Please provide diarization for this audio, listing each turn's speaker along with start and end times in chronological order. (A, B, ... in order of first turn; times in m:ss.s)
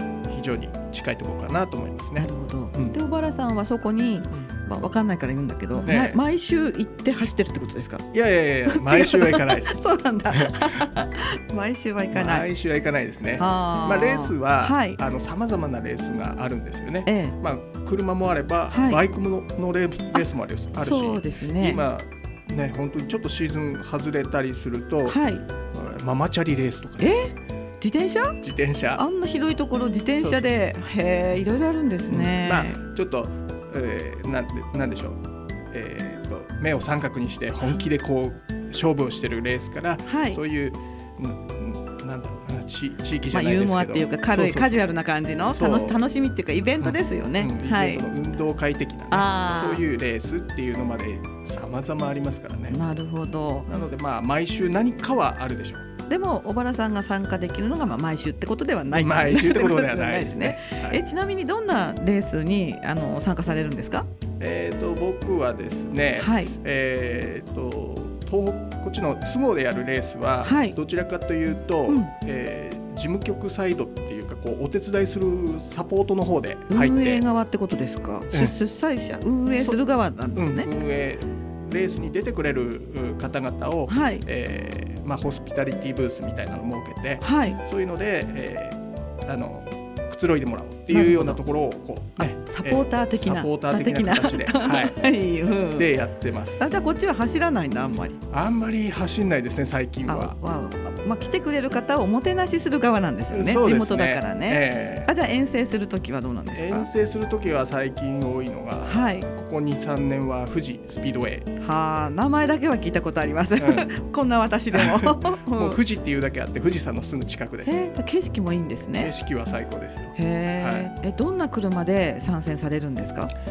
0:00.3-0:03.0 A
0:02.2-0:08.0 B
0:05.8-0:06.2 A
0:08.1-0:10.9 A
0:08.7-0:12.4 B
0:12.1-0:27.2 A
0:13.4-0:15.0 B
0:17.0-0:17.4 B
0:18.7-0:19.0 B
0:20.1-0:21.8 B
0:25.1-0:25.4 B
0:27.0-0:28.4 B
0:28.4-0:29.0 A
0:29.0-0:32.8 B
0:30.2-0:30.6 A
0:32.1-0:45.0 A
0:40.0-0:40.4 B
0:43.3-0:48.0 B
0:45.5-0:46.0 A
0:46.8-0:52.8 A
0:49.1-0:49.8 B
0:52.7-0:53.7 B
0:53.7-0:55.9 A
0:56.1-1:04.1 B
0:58.9-1:01.0 A
1:04.4-1:17.2 A
1:06.2-1:06.6 B
1:10.4-1:10.8 B
1:16.7-1:20.7 B
1:20.3-1:35.1 A
1:23.9-1:24.2 B
1:27.2-1:27.6 B
1:30.9-1:31.4 B
1:32.2-1:35.9 B
1:35.7-1:36.7 A
1:36.6-1:38.2 B
1:38.3-1:40.4 A
1:40.1-1:46.9 B
1:43.3-1:45.1 A
1:46.5-1:51.5 A
1:48.8-1:49.3 B
1:51.6-1:55.8 B
1:53.6-1:53.9 A
1:54.7-1:57.8 A
1:57.6-1:59.1 B
1:59.0-2:00.9 A
2:00.2-2:03.3 B